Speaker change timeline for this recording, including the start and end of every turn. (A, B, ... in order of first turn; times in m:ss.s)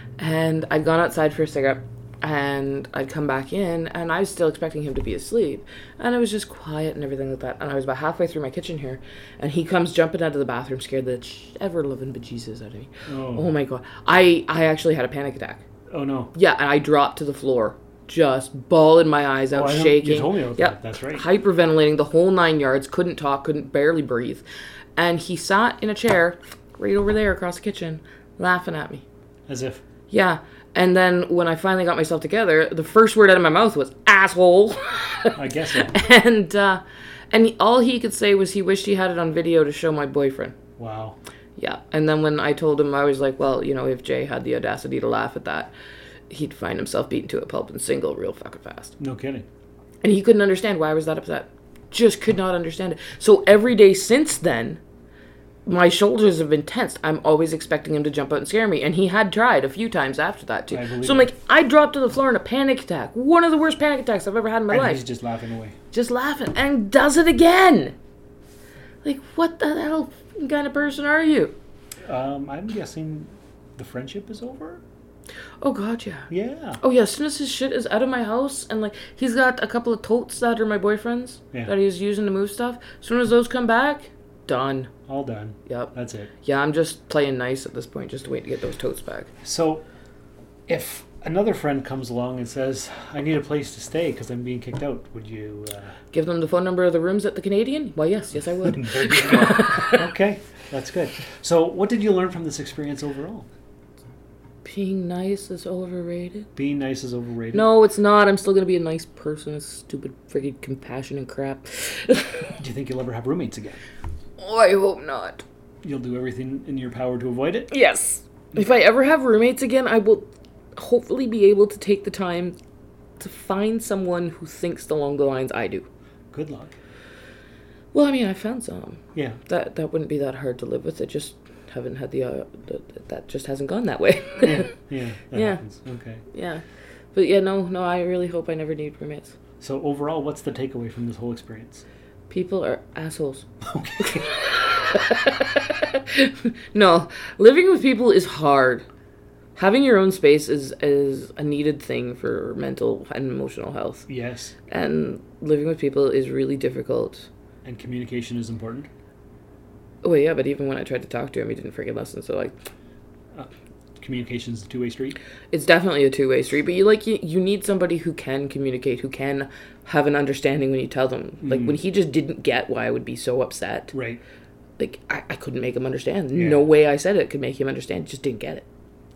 0:00.2-0:15.6 A
0:13.1-0:13.5 B
0:15.9-0:16.3 B
0:16.3-0:24.4 A
0:19.5-0:21.2 B
0:25.0-0:29.0 A
0:29.5-0:29.8 B
0:30.1-0:40.6 A
0:35.4-0:36.0 B
0:40.8-0:41.2 B
0:41.6-0:45.7 A
0:46.3-0:49.0 A
0:49.0-0:49.5 B
0:50.0-0:54.8 A
0:55.7-1:05.0 A
1:00.7-1:01.3 B
1:04.7-1:05.8 B
1:05.9-1:08.0 A
1:09.0-1:11.6 A
1:12.0-1:14.8 B
1:15.6-1:16.3 A
1:16.3-1:16.8 B
1:16.8-1:24.9 A
1:25.1-1:26.3 B
1:25.7-1:29.3 A
1:29.4-1:29.8 B
1:30.7-1:36.0 B
1:36.1-1:40.0 A
1:38.6-1:43.5 B
1:44.6-1:46.5 A
1:46.6-1:47.7 B
1:47.5-1:52.6 A
1:52.6-1:53.8 B
1:54.4-1:55.4 A
1:55.8-1:57.7 B
1:57.7-2:02.6 A
2:03.2-2:05.9 A
2:06.3-2:06.8 B
2:07.9-2:14.8 A
2:14.4-2:16.2 B
2:15.3-2:15.6 A
2:16.3-2:19.4 A
2:19.6-2:21.8 B
2:22.3-2:23.5 A
2:23.6-2:24.3 B
2:24.0-2:28.9 A
2:29.6-2:34.1 A
2:34.1-2:34.5 B
2:34.7-2:37.3 A
2:37.6-2:38.9 B
2:40.0-2:42.6 A
2:43.3-2:45.2 B
2:45.5-2:54.0 A
2:51.4-2:51.8 B
2:53.9-2:54.2 B
2:54.8-2:58.6 A
2:56.3-2:56.7 B